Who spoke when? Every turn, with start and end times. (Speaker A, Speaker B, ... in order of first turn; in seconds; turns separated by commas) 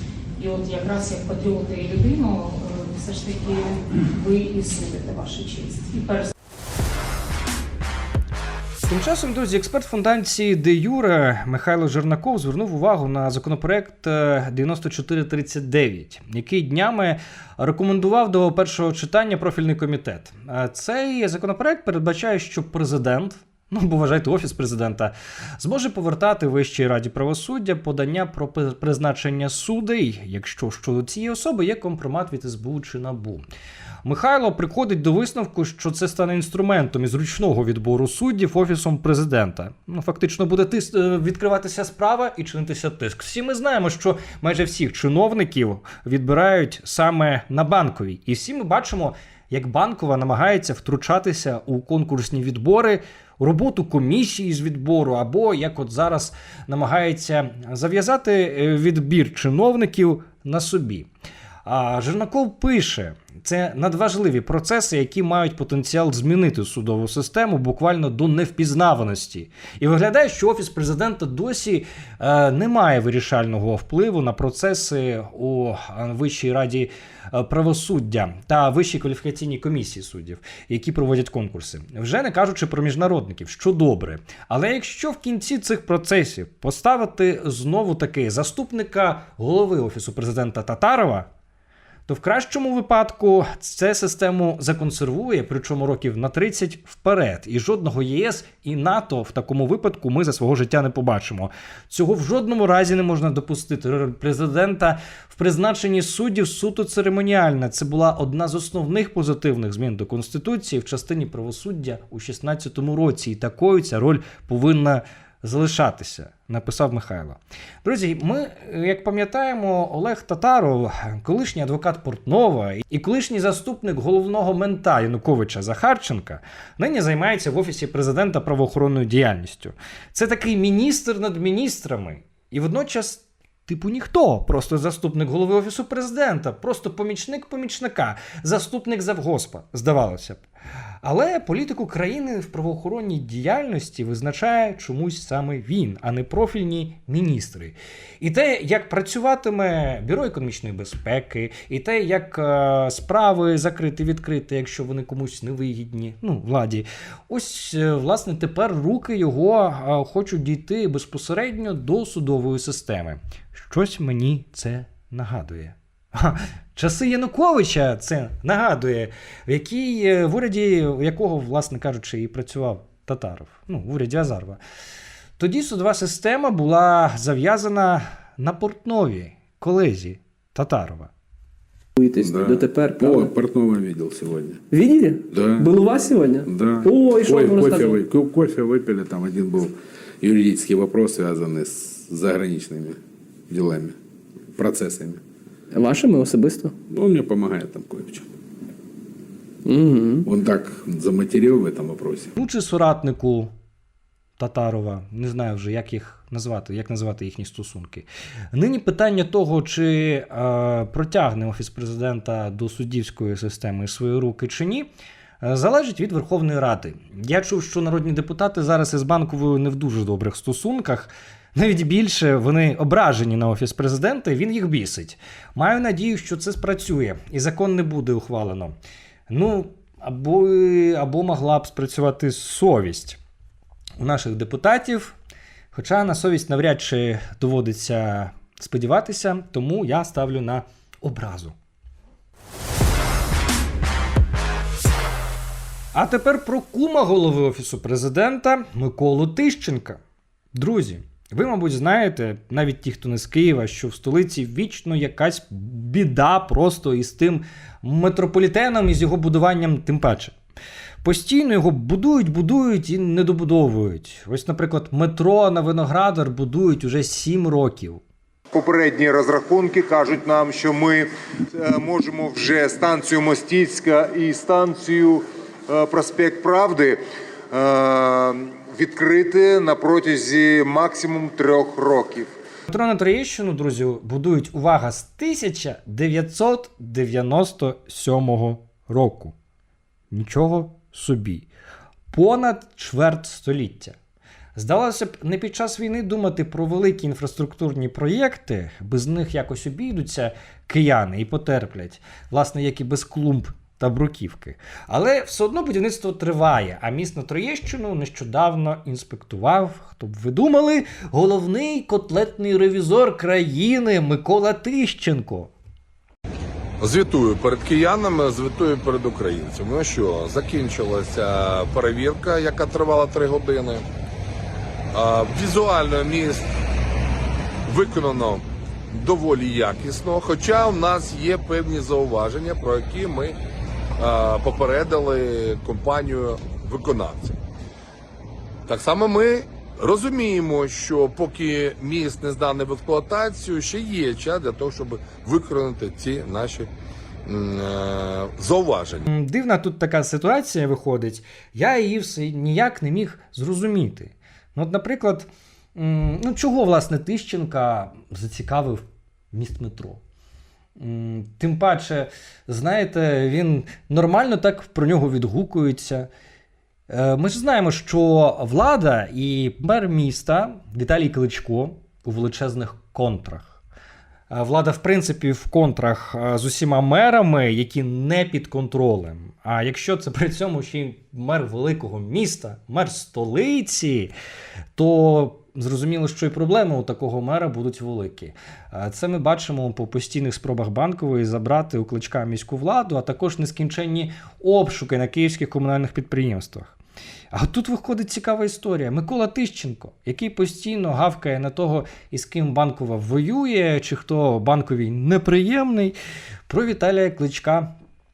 Speaker A: 0.4-6.3, Speaker B: 8.8-33.5, Speaker B: 34.0-61.1, Speaker B: 61.6-91.3, Speaker B: 92.1-140.4, Speaker B: 141.0-174.6, Speaker B: 175.4-181.1, Speaker C: 182.0-183.3, Speaker D: 182.2-184.6, Speaker C: 184.7-187.9, Speaker D: 185.3-185.8, Speaker D: 186.4-193.0, Speaker D: 193.5-193.9, Speaker D: 194.6-195.2, Speaker C: 195.7-196.7, Speaker D: 196.9-198.3, Speaker C: 199.8-200.3, Speaker D: 200.2-202.3, Speaker B: 202.4-203.5, Speaker B: 204.4-214.9, Speaker B: 215.4-228.8, Speaker B: 229.3-233.2, Speaker B: 234.0-235.2, Speaker B: 235.7-241.6, Speaker B: 245.9-250.0, Speaker B: 250.5-260.4, Speaker B: 261.0-268.0, Speaker E: 268.5-277.0, Speaker E: 277.5-282.3, Speaker B: 282.7-289.4, Speaker B: 290.1-291.5, Speaker B: 292.1-294.0, Speaker B: 294.6-315.5, Speaker F: 316.8-323.8, Speaker F: 324.9-326.5, Speaker F: 327.7-333.4, Speaker F: 334.0-337.4, Speaker F: 338.7-346.7, Speaker F: 347.3-349.1, Speaker B: 349.1-360.0, Speaker B: 360.8-366.1, Speaker B: 366.9-373.6, Speaker B: 374.3-384.1, Speaker B: 384.8-396.8, Speaker B: 397.3-405.9, Speaker B: 406.5-407.7